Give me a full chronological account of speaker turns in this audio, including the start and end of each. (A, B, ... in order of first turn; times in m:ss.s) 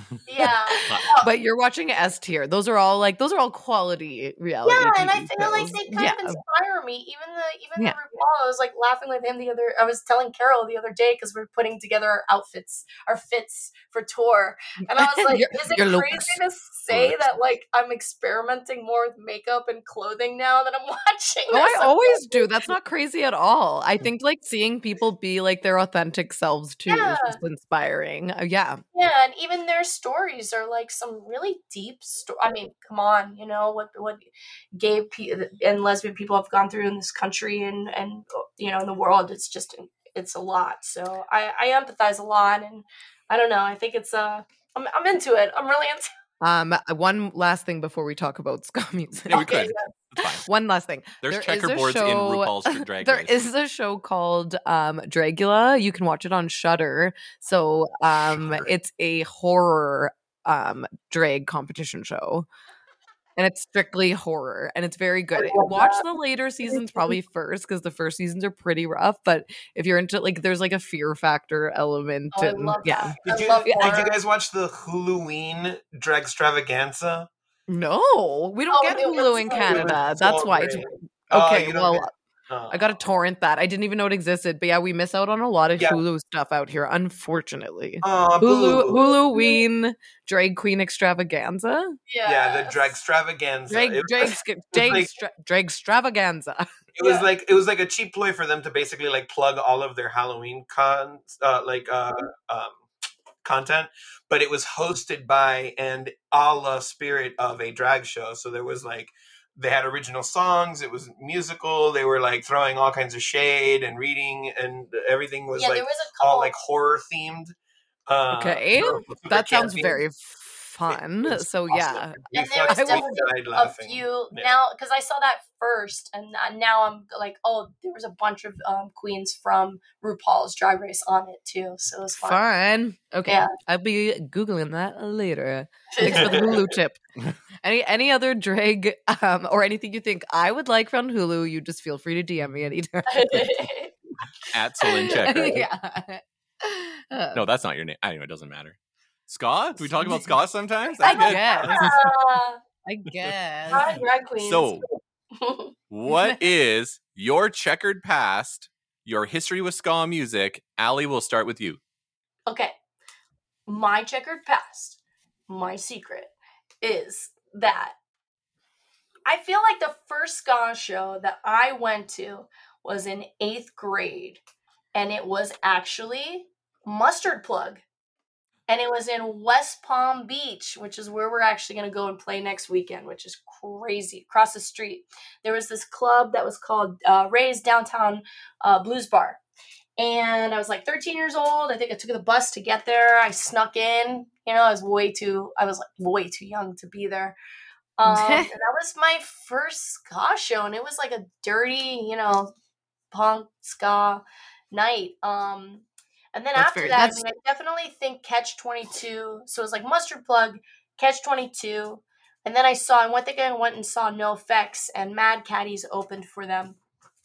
0:00.3-0:01.3 A
0:00.4-0:06.4 B
0:04.6-0:22.5 A
0:14.9-0:16.4 B
0:16.9-0:17.2 C
0:21.5-0:28.8 B
0:26.9-0:27.4 A
0:28.9-0:46.1 A
0:46.4-0:49.5 B
0:49.3-0:50.5 C
0:49.3-0:49.9 A
0:50.4-1:02.5 B
0:51.2-0:53.4 C
1:03.4-1:13.9 B
1:05.4-1:06.1 A
1:06.7-1:07.2 A
1:12.3-1:14.2 A
1:13.2-1:17.3 D
1:17.7-1:22.1 B
1:18.7-1:20.0 A
1:19.6-1:23.0 D
1:22.7-1:32.0 B
1:28.0-1:29.2 D
1:29.3-1:29.6 A
1:32.1-1:32.9 A
1:32.2-1:35.1 D
1:33.7-1:36.7 B
1:37.0-1:42.8 D
1:37.0-1:37.3 A
1:43.4-1:57.5 D
1:55.6-1:56.5 A
1:58.1-2:00.0 D
1:58.3-2:03.1 B
2:00.9-2:04.6 D
2:02.3-2:12.4 A
2:12.2-2:17.0 B
2:15.9-2:16.6 A
2:16.0-2:16.6 D
2:17.6-2:23.6 B
2:23.1-2:23.9 A
2:24.5-2:25.7 C
2:24.8-2:27.4 B
2:27.3-2:28.8 C
2:29.3-2:32.0 C
2:29.8-2:30.3 B
2:31.0-2:32.0 B
2:31.0-2:32.6 A
2:32.9-2:34.0 B
2:33.7-2:35.7 A
2:34.4-2:34.9 C
2:35.9-2:41.8 C
2:36.1-2:36.4 B
2:42.5-2:42.7 A
2:43.7-2:45.0 A
2:45.5-2:48.0 A
2:49.3-2:54.4 A
2:55.0-2:57.8 A
2:58.7-3:09.4 A
3:10.0-3:17.4 A
3:18.0-3:22.5 A
3:18.0-3:18.5 B
3:23.1-3:36.8 A
3:26.6-3:27.2 B